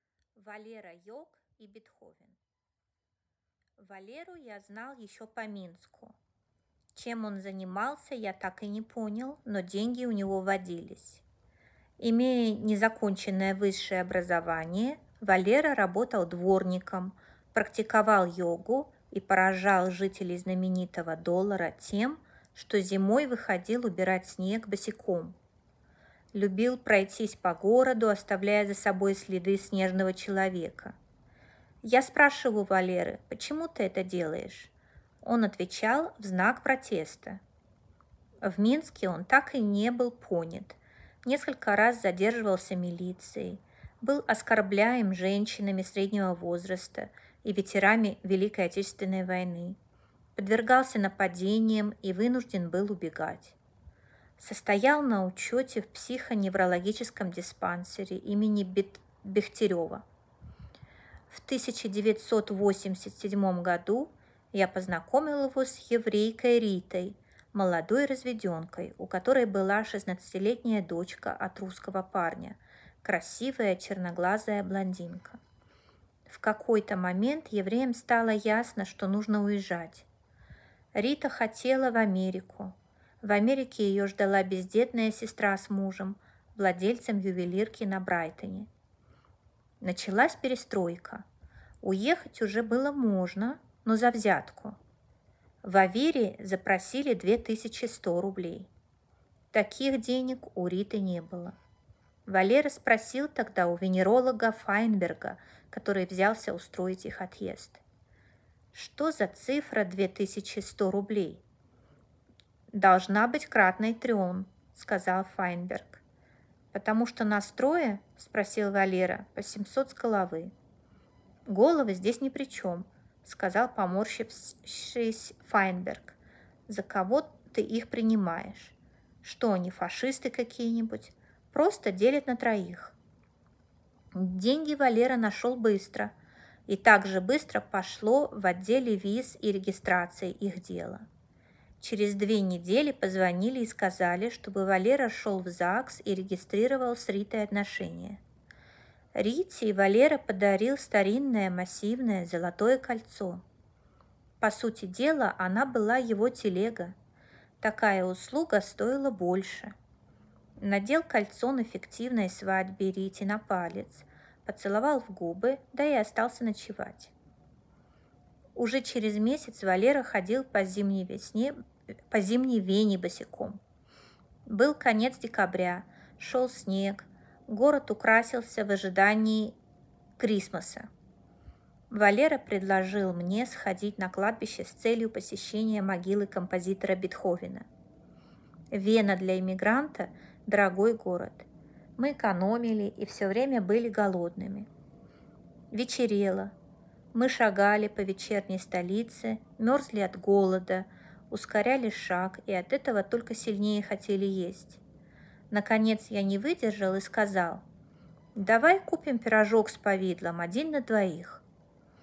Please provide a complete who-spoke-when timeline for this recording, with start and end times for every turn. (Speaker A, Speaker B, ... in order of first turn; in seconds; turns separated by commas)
Speaker A: 0.3-2.4, Speaker A: 3.8-6.2, Speaker A: 7.0-11.2, Speaker A: 12.0-25.4, Speaker A: 26.3-30.9, Speaker A: 31.8-37.4, Speaker A: 38.4-49.8, Speaker A: 50.4-53.6, Speaker A: 54.4-60.0, Speaker A: 61.3-75.4, Speaker A: 76.3-80.1, Speaker A: 81.0-88.7, Speaker A: 89.8-91.2, Speaker A: 91.8-94.8, Speaker A: 95.6-98.7, Speaker A: 99.5-101.6, Speaker A: 102.3-107.8, Speaker A: 108.7-111.4, Speaker A: 112.7-116.0, Speaker A: 116.7-120.5, Speaker A: 121.5-126.2, Speaker A: 126.7-133.0, Speaker A: 134.1-136.1, Speaker A: 136.7-141.1, Speaker A: 141.8-148.2, Speaker A: 149.2-153.4, Speaker A: 154.4-156.9, Speaker A: 157.6-159.7, Speaker A: 160.6-167.1, Speaker A: 168.6-171.6, Speaker A: 172.1-173.6, Speaker A: 174.5-179.6, Speaker A: 180.2-180.9, Speaker A: 181.9-187.7, Speaker A: 188.7-194.7, Speaker A: 195.7-196.5, Speaker A: 197.1-204.8, Speaker A: 205.5-207.6, Speaker A: 208.4-211.4